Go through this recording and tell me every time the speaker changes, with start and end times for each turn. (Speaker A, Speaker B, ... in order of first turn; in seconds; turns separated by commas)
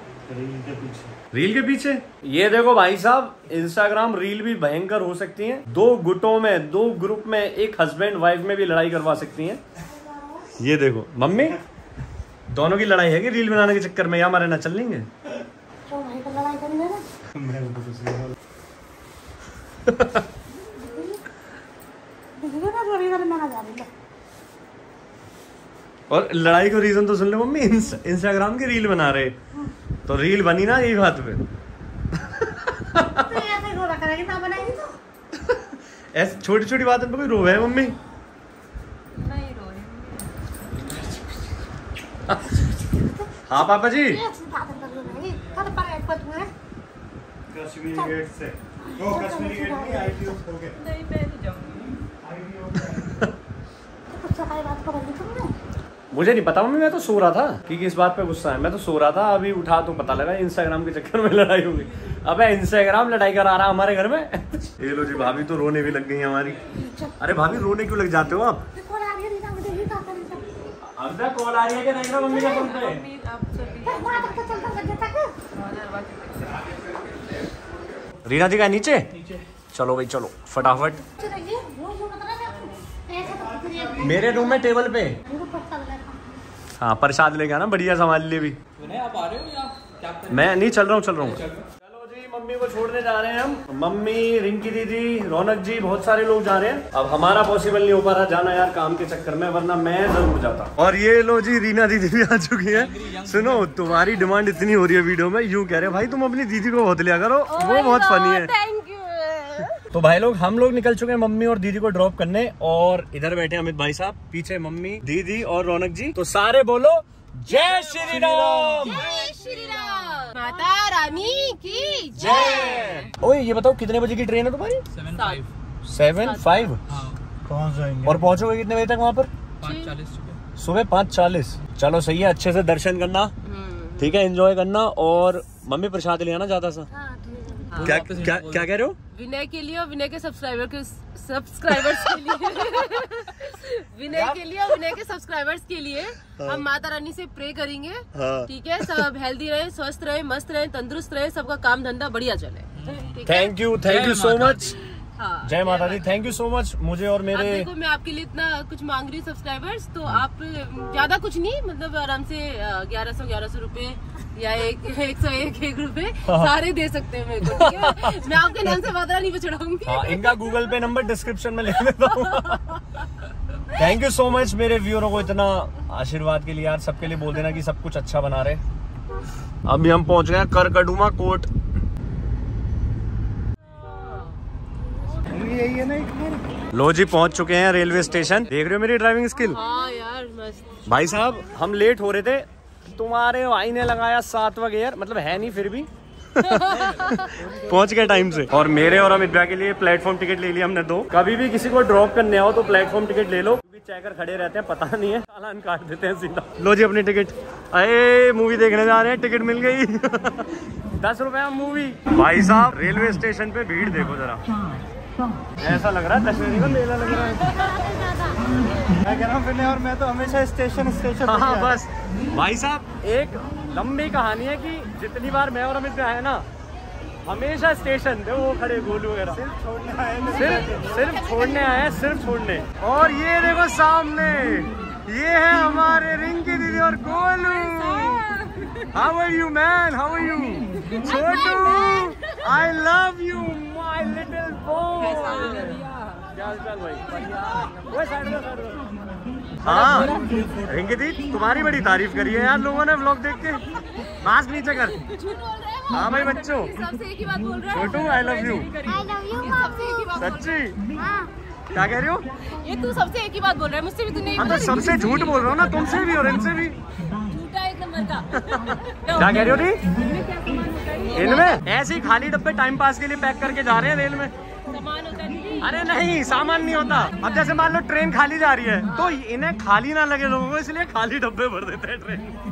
Speaker A: 0.3-1.1, Speaker B: 1.3-9.6, Speaker B: 10.6-11.6, Speaker B: 12.5-15.1, Speaker C: 15.9-17.0, Speaker A: 17.4-18.3, Speaker B: 19.9-20.3, Speaker C: 20.8-21.2, Speaker C: 22.4-23.9, Speaker B: 26.1-29.4, Speaker B: 30.1-31.4, Speaker B: 32.2-33.6, Speaker C: 33.3-35.0, Speaker B: 36.1-38.0, Speaker D: 39.1-40.5, Speaker B: 43.5-44.2, Speaker C: 44.1-46.5, Speaker A: 47.5-50.8, Speaker C: 47.9-48.2, Speaker C: 48.9-50.4, Speaker D: 50.8-52.0, Speaker A: 52.2-53.3, Speaker C: 54.1-55.5, Speaker B: 56.1-66.6, Speaker C: 66.8-67.2, Speaker B: 67.2-68.7, Speaker C: 68.8-70.5, Speaker B: 70.9-73.0, Speaker D: 72.3-74.7, Speaker C: 73.9-75.3, Speaker D: 75.5-76.6, Speaker B: 78.2-79.1, Speaker B: 79.7-81.0, Speaker C: 81.1-84.1, Speaker B: 84.0-85.2, Speaker C: 85.3-86.2, Speaker B: 86.8-88.6, Speaker E: 88.8-90.2, Speaker B: 90.3-108.5, Speaker F: 107.5-109.8, Speaker B: 109.9-119.1, Speaker F: 117.5-123.1, Speaker A: 118.2-118.8, Speaker B: 122.2-124.8, Speaker F: 125.1-125.5, Speaker E: 125.1-125.4, Speaker B: 125.8-126.8, Speaker F: 126.2-126.7, Speaker A: 127.5-128.3, Speaker B: 128.1-129.3, Speaker F: 129.6-130.0, Speaker E: 129.7-130.4, Speaker B: 130.6-133.3, Speaker F: 133.4-134.1, Speaker B: 134.0-136.9, Speaker F: 137.5-138.1, Speaker B: 137.8-139.0, Speaker E: 137.8-138.6, Speaker F: 139.1-153.6, Speaker B: 144.1-144.4, Speaker A: 148.2-148.5, Speaker B: 153.2-154.8, Speaker E: 153.9-154.6, Speaker F: 155.0-156.2, Speaker B: 155.4-157.7, Speaker F: 157.3-170.6, Speaker B: 166.2-166.5, Speaker B: 167.4-168.2, Speaker B: 169.8-172.8, Speaker F: 172.0-172.8, Speaker B: 173.7-178.6, Speaker B: 179.7-181.5, Speaker F: 183.9-184.3, Speaker A: 185.3-186.4, Speaker B: 186.7-189.6, Speaker F: 189.4-190.8, Speaker B: 190.9-214.5, Speaker F: 196.4-197.5, Speaker B: 215.6-217.9, Speaker F: 217.3-218.3, Speaker A: 219.0-221.8, Speaker B: 221.2-226.5, Speaker B: 227.2-229.4, Speaker A: 229.3-231.1, Speaker B: 230.3-238.2, Speaker F: 230.6-231.6, Speaker D: 237.7-238.9, Speaker B: 238.9-245.8, Speaker F: 241.0-242.3, Speaker D: 245.0-246.2, Speaker B: 246.3-248.8, Speaker B: 249.6-253.6, Speaker F: 249.6-250.2, Speaker A: 249.8-250.7, Speaker F: 254.0-261.3, Speaker B: 254.2-255.0, Speaker B: 255.9-256.7, Speaker B: 257.7-258.7, Speaker B: 260.2-260.8, Speaker B: 261.7-262.3, Speaker F: 262.5-266.4, Speaker B: 264.4-266.8, Speaker F: 267.1-271.6, Speaker B: 268.5-269.8, Speaker B: 271.1-274.3, Speaker F: 274.7-275.9, Speaker B: 275.6-282.4, Speaker F: 276.7-277.5, Speaker F: 278.9-279.2